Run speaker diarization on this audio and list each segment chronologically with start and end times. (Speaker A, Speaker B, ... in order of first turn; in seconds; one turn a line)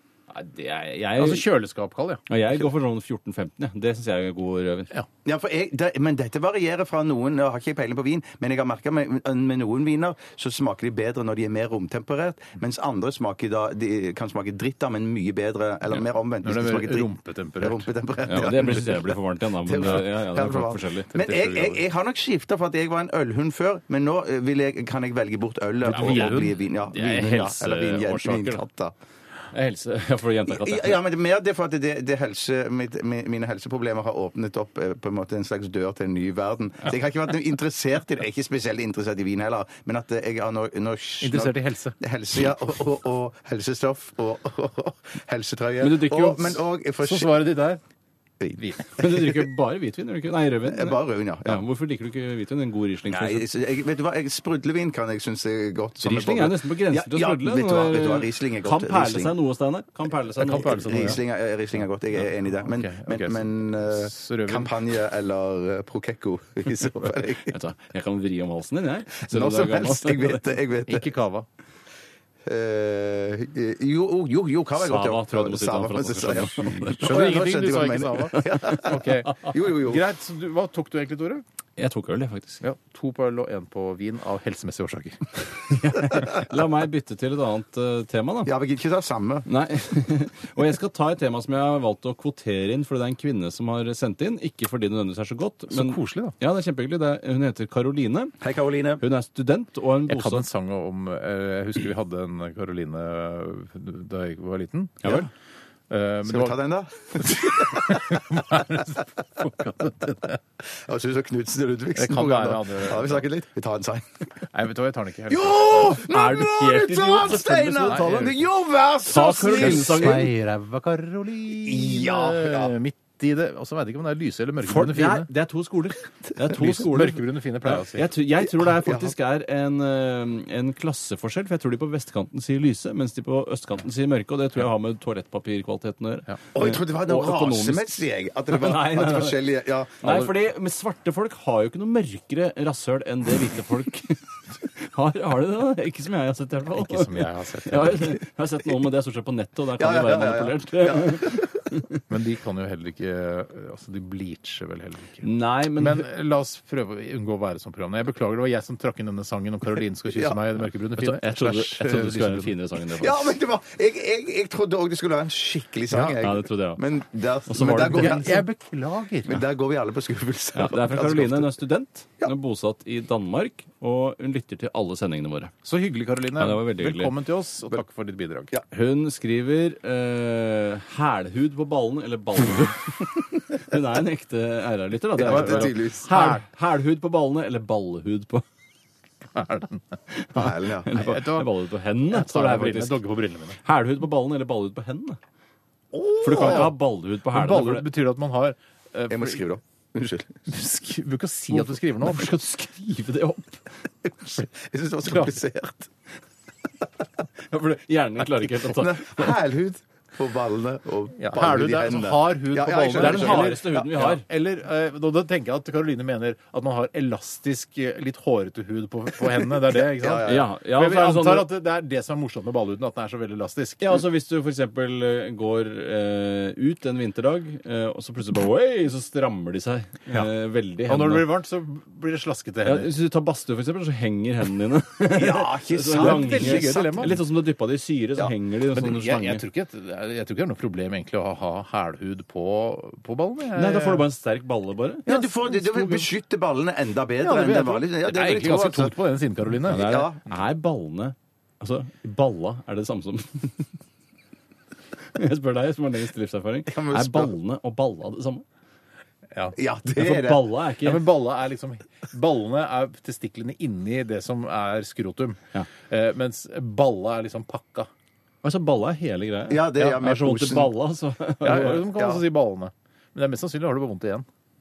Speaker A: 0.3-1.5
Speaker B: 1.2-2.2
Speaker A: 2.3-4.9
Speaker C: 5.2-28.9
Speaker B: 16.4-17.9
Speaker A: 18.3-21.7
Speaker B: 21.2-21.6
Speaker B: 25.8-26.6
Speaker A: 25.9-28.6
Speaker A: 29.5-31.0
Speaker C: 30.5-47.4
Speaker B: 41.2-42.0
Speaker A: 45.8-46.6
Speaker B: 47.0-47.8
Speaker C: 48.4-49.3
Speaker A: 49.0-53.5
Speaker C: 50.6-51.6
Speaker C: 53.1-59.3
Speaker A: 56.0-61.1
Speaker B: 60.4-61.2
Speaker C: 60.8-67.5
Speaker B: 62.2-64.7
Speaker A: 67.5-70.4
Speaker C: 69.2-71.1
Speaker B: 70.9-71.5
Speaker C: 72.5-80.0
Speaker A: 74.8-77.4
Speaker B: 77.0-81.4
Speaker A: 78.5-78.8
Speaker A: 81.8-82.6
Speaker B: 82.6-85.3
Speaker A: 85.7-88.5
Speaker C: 88.5-89.5
Speaker A: 89.5-98.3
Speaker B: 95.7-96.4
Speaker C: 98.4-99.0
Speaker A: 99.0-100.5
Speaker B: 100.1-105.2
Speaker A: 105.0-105.3
Speaker B: 105.9-106.6
Speaker C: 106.3-108.2
Speaker B: 107.2-110.4
Speaker C: 110.6-114.3
Speaker B: 112.0-113.2
Speaker B: 114.5-116.0
Speaker C: 115.3-120.3
Speaker A: 116.0-118.3
Speaker B: 117.9-118.1
Speaker A: 119.0-120.3
Speaker B: 119.3-125.3
Speaker C: 121.6-122.7
Speaker A: 124.6-139.4
Speaker B: 126.5-128.1
Speaker C: 128.6-129.1
Speaker C: 136.5-140.3
Speaker A: 140.0-152.0
Speaker B: 146.7-148.2
Speaker C: 149.8-151.6
Speaker B: 152.1-155.2
Speaker A: 155.2-156.1
Speaker B: 155.8-162.4
Speaker C: 160.1-160.4
Speaker A: 161.0-163.3
Speaker C: 161.8-162.2
Speaker C: 162.9-168.4
Speaker B: 165.9-166.2
Speaker A: 166.2-166.8
Speaker A: 167.5-168.3
Speaker B: 167.9-169.4
Speaker C: 169.3-171.5
Speaker A: 170.6-175.5
Speaker B: 175.6-178.5
Speaker A: 176.4-177.1
Speaker A: 178.7-188.4
Speaker C: 185.2-186.3
Speaker B: 185.2-186.4
Speaker B: 189.3-189.8
Speaker A: 190.1-193.0
Speaker C: 190.3-190.9
Speaker B: 190.9-191.5
Speaker B: 192.1-193.6
Speaker A: 193.6-195.2
Speaker C: 195.9-196.7
Speaker A: 196.2-197.9
Speaker B: 196.2-196.7
Speaker B: 197.3-199.4
Speaker C: 199.1-200.4
Speaker B: 200.5-202.3
Speaker A: 201.5-203.6
Speaker C: 204.1-205.9
Speaker A: 207.5-209.4
Speaker C: 208.5-214.1
Speaker B: 211.2-224.0
Speaker A: 213.0-214.2
Speaker C: 219.7-220.5
Speaker A: 220.3-221.5
Speaker A: 223.8-231.3
Speaker B: 230.9-232.9
Speaker A: 232.6-239.4
Speaker C: 235.1-237.1
Speaker B: 235.9-237.2
Speaker B: 238.7-244.1
Speaker A: 243.6-245.1
Speaker B: 245.1-246.1
Speaker C: 245.1-249.0
Speaker B: 247.2-250.1
Speaker C: 249.6-250.2
Speaker A: 249.7-253.7
Speaker A: 255.1-258.4
Speaker C: 256.7-257.3
Speaker C: 259.6-260.5
Speaker A: 259.9-261.0
Speaker B: 260.8-267.9
Speaker A: 268.4-271.8
Speaker C: 269.5-270.7
Speaker B: 271.4-274.3
Speaker C: 271.9-272.2